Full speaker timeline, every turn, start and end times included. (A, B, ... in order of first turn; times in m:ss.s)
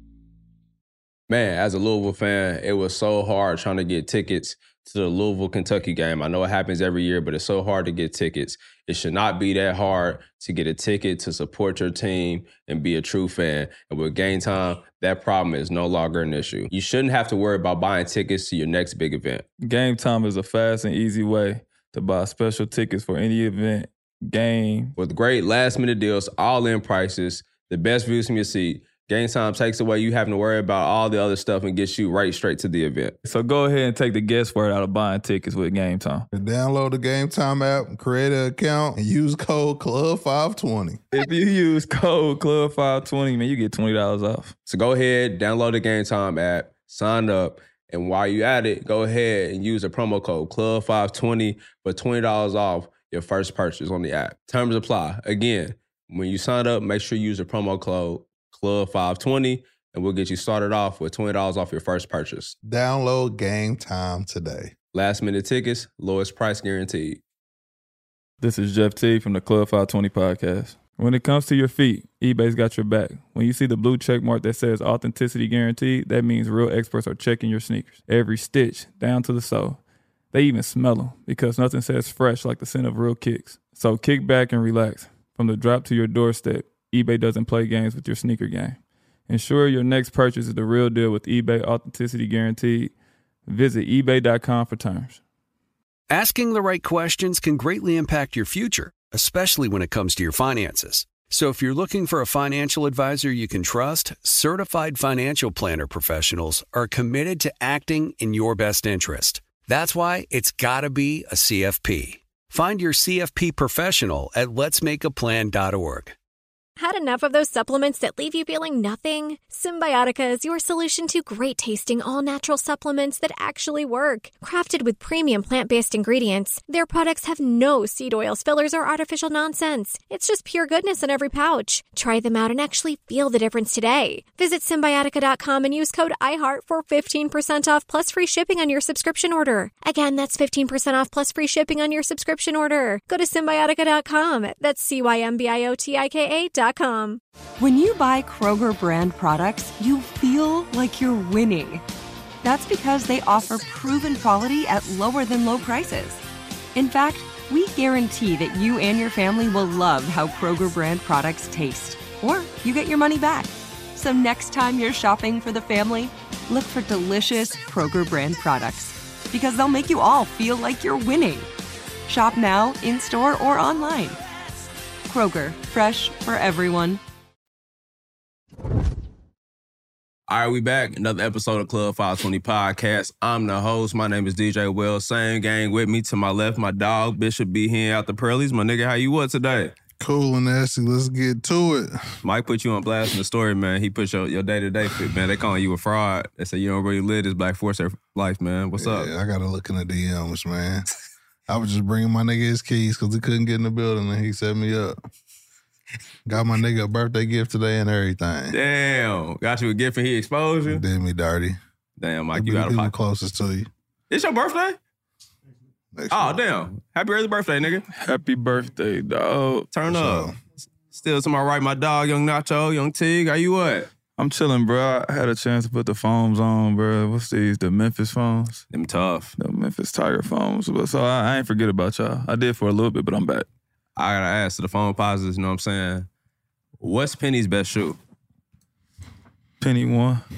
0:01.3-0:19.4 A
0:19.6-0:24.9 B
0:25.0-0:33.2 A
0:33.3-0:36.3 B
0:36.3-0:41.0 C
0:41.1-0:44.5 B
0:44.7-1:02.6 A
1:02.6-1:04.7 C
1:04.9-1:07.2 A
1:08.4-1:19.8 B
1:20.3-1:32.9 B
1:33.5-1:35.2 B
1:36.1-1:56.2 D
1:56.8-2:27.2 E
2:27.6-2:31.8 F
2:32.4-2:36.2 F
2:36.8-2:51.5 F
2:52.1-2:54.2 F
2:55.1-2:57.0 F
3:00.3-3:09.8 A
3:10.0-3:12.0 C
3:12.2-3:19.1 A
3:18.8-3:20.9 C
3:21.5-3:25.0 C
3:26.3-3:28.6 C
3:28.5-3:30.8 A
3:30.7-3:31.6 C
3:32.0-3:32.9 A
3:32.3-3:33.7 C
3:34.1-3:34.8 A
3:36.0-3:36.4 C
3:36.1-3:37.8 A
3:37.9-3:39.7 B
3:39.7-3:40.3 A
3:39.9-3:40.4 C
3:40.9-3:43.9 A
3:44.2-3:48.6 B
3:48.7-3:49.4 A
3:49.4-3:53.5 B
3:54.0-3:56.1 A
3:56.8-3:58.0 A
3:59.6-4:00.2 B